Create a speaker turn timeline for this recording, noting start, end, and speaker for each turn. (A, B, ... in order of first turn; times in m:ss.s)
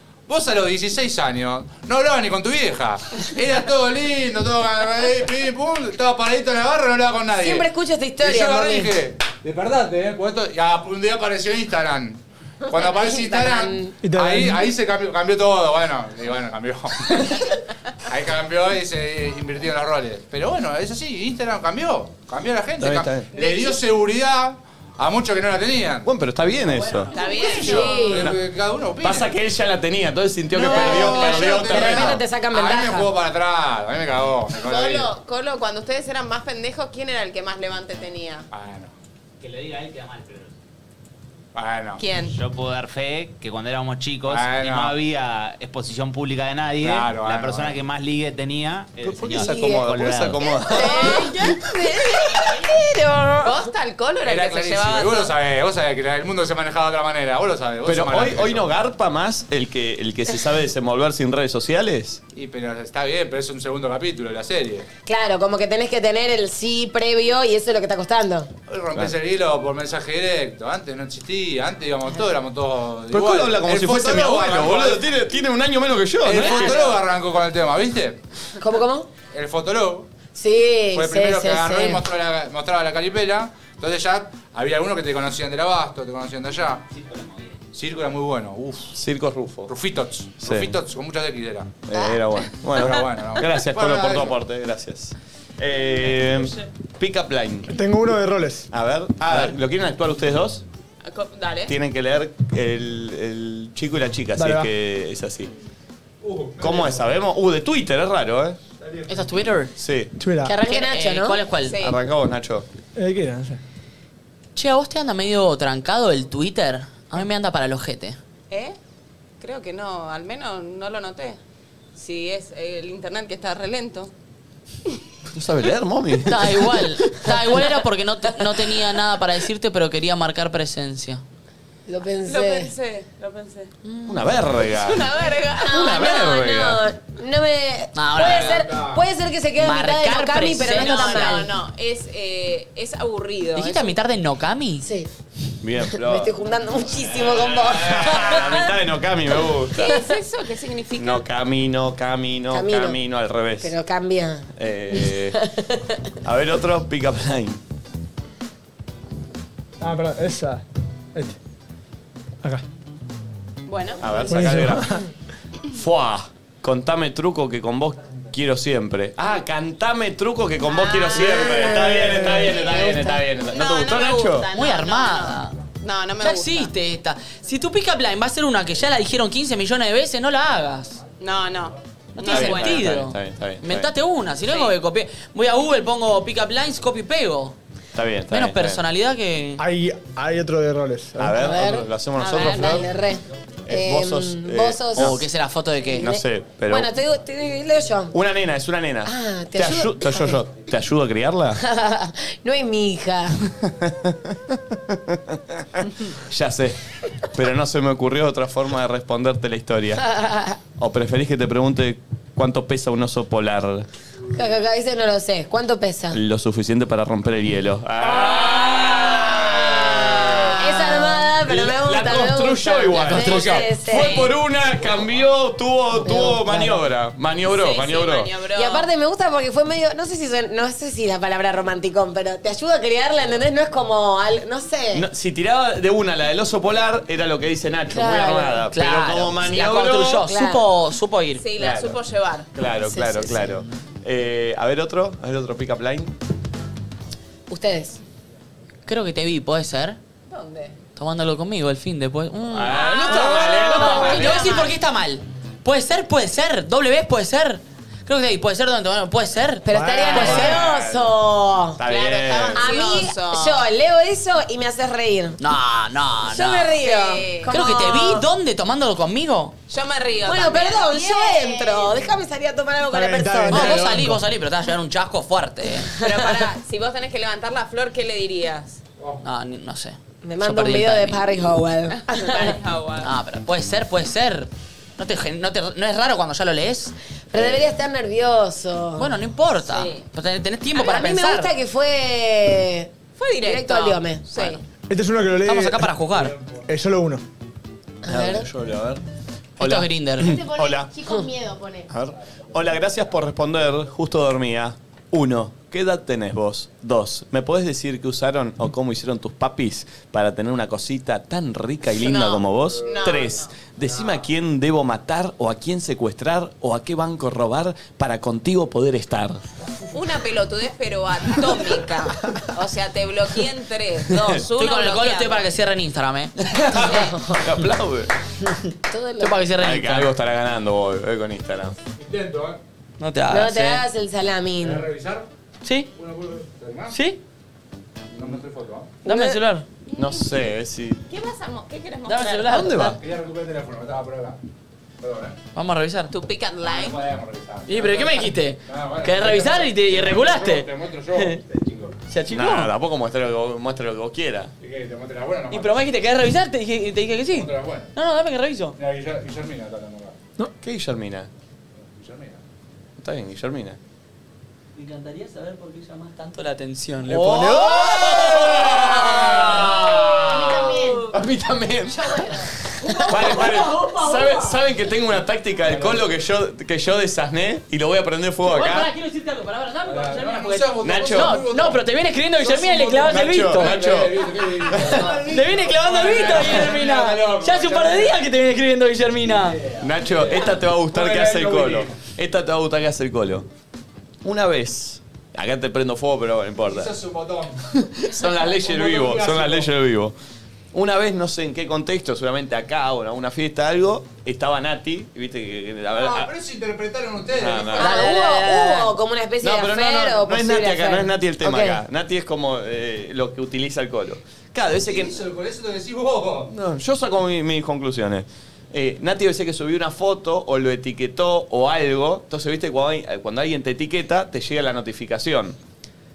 0:00.3-0:17.5 A
0:07.4-0:09.0 B
0:13.0-0:13.9 B
0:14.0-0:14.7 C
0:18.1-0:26.1 A
0:22.8-0:23.3 D
0:23.3-0:23.8 E
0:26.0-0:28.4 D
0:26.6-0:27.8 F
0:27.1-0:27.8 E
0:27.4-0:29.3 A
0:27.6-0:28.3 B
0:27.7-0:28.2 G
0:29.0-0:32.2 D
0:30.5-0:35.1 A
0:30.6-0:33.1 B
0:34.6-0:38.5 E
0:38.5-0:38.9 A
0:39.4-0:40.5 H
0:41.5-0:42.0 A
0:42.0-0:42.4 E
0:42.3-0:50.4 H
0:44.3-0:45.0 A
0:46.8-0:47.8 A
0:49.0-0:51.3 D
0:49.4-0:49.9 B
0:50.7-0:53.6 B
0:50.7-0:51.6 G
0:53.4-0:55.3 E
0:54.2-0:58.7 A
0:57.8-1:02.2 D
1:02.3-1:04.8 A
1:05.0-1:08.5 B
1:08.7-1:15.0 A
1:13.1-1:16.9 D
1:16.2-1:18.2 A
1:16.3-1:17.0 B
1:18.6-1:19.1 B
1:19.3-1:20.1 A
1:20.3-1:22.0 B
1:20.9-1:26.8 A
1:26.9-1:27.6 H
1:27.7-1:29.0 A
1:28.9-1:29.7 D
1:29.7-1:31.7 A
1:30.4-1:30.7 D
1:31.9-1:37.8 D
1:31.9-1:32.2 B
1:32.7-1:34.4 A
1:37.7-1:38.7 C
1:38.7-1:40.6 D
1:39.3-1:39.5 A
1:41.0-1:41.7 E
1:41.7-1:45.5 D
1:44.4-1:44.7 C
1:46.2-1:47.1 A
1:46.6-1:48.6 D
1:48.8-1:49.2 A
1:49.1-1:49.7 F
1:49.8-1:50.1 D
1:50.2-1:50.6 C
1:50.4-1:51.4 B
1:50.6-1:51.8 F
1:51.6-1:52.0 E
1:51.8-1:52.6 D
1:53.0-1:53.6 C
1:54.6-1:58.2 F
1:58.5-1:58.8 E
1:59.4-2:01.4 E
2:02.0-2:04.1 E
2:05.3-2:07.4 D
2:06.2-2:11.2 F
2:11.9-2:12.7 B
2:12.2-2:13.7 E
2:14.0-2:14.3 B
2:14.1-2:15.0 D
2:14.7-2:16.0 E
2:15.6-2:21.5 B
2:15.8-2:16.8 D
2:17.9-2:18.7 F
2:18.2-2:19.0 A
2:19.6-2:21.4 F
2:20.6-2:23.9 E
2:23.6-2:24.8 F
2:24.8-2:25.1 B
2:25.6-2:26.3 D
2:25.8-2:28.7 B
2:26.9-2:30.0 D
2:27.9-2:28.3 A
2:29.7-2:31.2 E
2:31.0-2:33.8 D
2:32.5-2:33.0 B
2:33.6-2:35.8 B
2:34.6-2:35.4 D
2:36.2-2:37.6 D
2:39.8-2:40.6 C
2:43.6-2:44.3 E
2:44.0-2:44.9 D
2:44.3-2:45.0 C
2:45.7-2:54.5 D
2:50.6-2:51.7 E
2:51.1-2:53.2 B
2:51.6-2:52.5 C
2:53.5-2:56.7 E
2:54.5-2:55.5 F
2:56.2-3:01.0 F
3:01.2-3:02.9 E
3:02.2-3:07.6 F
3:02.3-3:03.9 D
3:04.5-3:04.7 E
3:07.9-3:08.8 D
3:08.3-3:09.6 F
3:09.6-3:11.4 C
3:11.2-3:12.9 D
3:11.3-3:15.2 B
3:12.2-3:12.8 E
3:13.6-3:15.2 D
3:15.0-3:16.1 F
3:15.8-3:18.1 B
3:16.0-3:16.9 D
3:18.1-3:21.6 D
3:19.0-3:20.4 B
3:21.6-3:23.5 B
3:23.7-3:30.1 D
3:30.0-3:30.6 B
3:30.8-3:33.9 D
3:34.3-3:36.2 B
3:36.1-3:48.3 D
3:40.6-3:44.3 B
3:43.1-3:43.6 A
3:46.0-3:46.7 B
3:47.4-3:48.9 E
3:48.5-3:55.1 B
3:54.9-4:00.3 D
3:57.9-3:58.7 B
3:58.7-4:01.4 F
4:00.2-4:00.6 B
4:01.4-4:02.5 E
4:01.6-4:02.0 D
4:02.5-4:06.1 D
4:02.8-4:03.6 B
4:07.5-4:08.0 B
4:08.8-4:10.0 F
4:10.3-4:10.8 E
4:11.0-4:20.6 F
4:12.5-4:14.5 D
4:12.7-4:14.7 E
4:19.6-4:21.8 B
4:19.7-4:20.2 C
4:20.0-4:21.1 D
4:21.8-4:22.8 D
4:21.8-4:23.6 E
4:22.5-4:25.4 B
4:25.4-4:26.7 F
4:26.2-4:28.2 B
4:26.8-4:27.7 E
4:27.5-4:29.5 F
4:29.7-4:30.9 E
4:30.2-4:34.1 B
4:30.8-4:32.0 G
4:32.9-4:34.2 C
4:33.5-4:36.0 F
4:36.0-4:38.8 E
4:39.0-4:39.2 A
4:39.2-4:41.2 F
4:40.2-4:42.6 B
4:42.1-4:43.1 E
4:43.0-4:46.9 F
4:47.3-4:49.2 B
4:47.3-4:47.6 D
4:49.0-4:51.5 F
4:49.7-4:50.0 E
4:50.7-4:54.2 B
4:53.2-4:54.6 E
4:54.9-4:56.0 C
4:55.4-4:56.4 F
4:56.1-4:56.6 A
4:56.7-4:57.2 C
4:58.0-4:58.5 B
4:58.0-4:59.0 D
4:59.6-5:00.9 D
4:59.6-5:00.4 F
5:00.2-5:01.9 G
5:01.9-5:19.4 D
5:12.0-5:13.5 E
5:12.7-5:14.2 A
5:19.9-5:25.4 E
5:24.1-5:24.4 D
5:24.6-5:26.3 F
5:26.4-5:28.1 D
5:26.8-5:27.5 B
5:28.8-5:29.4 B
5:29.2-5:30.1 F
5:29.6-5:31.8 D
5:31.9-5:32.6 A
5:33.0-5:33.8 F
5:33.3-5:34.9 B
5:34.6-5:35.3 A
5:35.6-5:35.9 F
5:35.9-5:37.0 A
5:36.9-5:37.2 F
5:38.1-5:39.0 A
5:39.0-5:39.4 B
5:39.0-5:39.6 F
5:39.9-5:40.3 E
5:40.0-5:41.0 D
5:41.1-5:42.6 E
5:42.1-5:43.0 F
5:42.5-5:43.0 D
5:43.0-5:44.4 A
5:45.0-5:45.4 A
5:45.5-5:46.1 F
5:46.1-5:47.0 E
5:46.6-5:52.0 A
5:47.7-5:51.4 F
5:52.1-5:52.7 F
5:52.3-5:54.5 D
5:54.6-5:55.8 A
5:55.5-5:58.7 F
5:57.3-5:57.9 A
5:58.8-6:00.2 A
6:00.6-6:01.3 D
6:01.8-6:02.4 A
6:03.0-6:03.8 D
6:04.8-6:09.8 F
6:07.1-6:12.2 D
6:09.0-6:09.5 A
6:09.1-6:11.2 G
6:11.9-6:12.5 G
6:12.9-6:14.6 F
6:13.0-6:18.9 D
6:15.6-6:16.1 A
6:18.4-6:23.8 F
6:19.9-6:21.8 A
6:20.8-6:21.4 D
6:22.4-6:28.2 A
6:23.0-6:25.4 D
6:25.2-6:29.6 F
6:26.2-6:26.6 D
6:29.2-6:32.0 A
6:29.8-6:33.5 D
6:34.2-6:36.9 D
6:36.6-6:37.6 A
6:37.7-6:40.1 D
6:38.4-6:39.7 A
6:40.7-6:46.3 D
6:45.9-6:48.1 A
6:47.4-6:48.1 D
6:47.8-6:51.8 B
6:47.8-6:48.8 F
6:49.4-6:55.2 D
6:54.8-6:56.5 A
6:56.5-7:05.6 D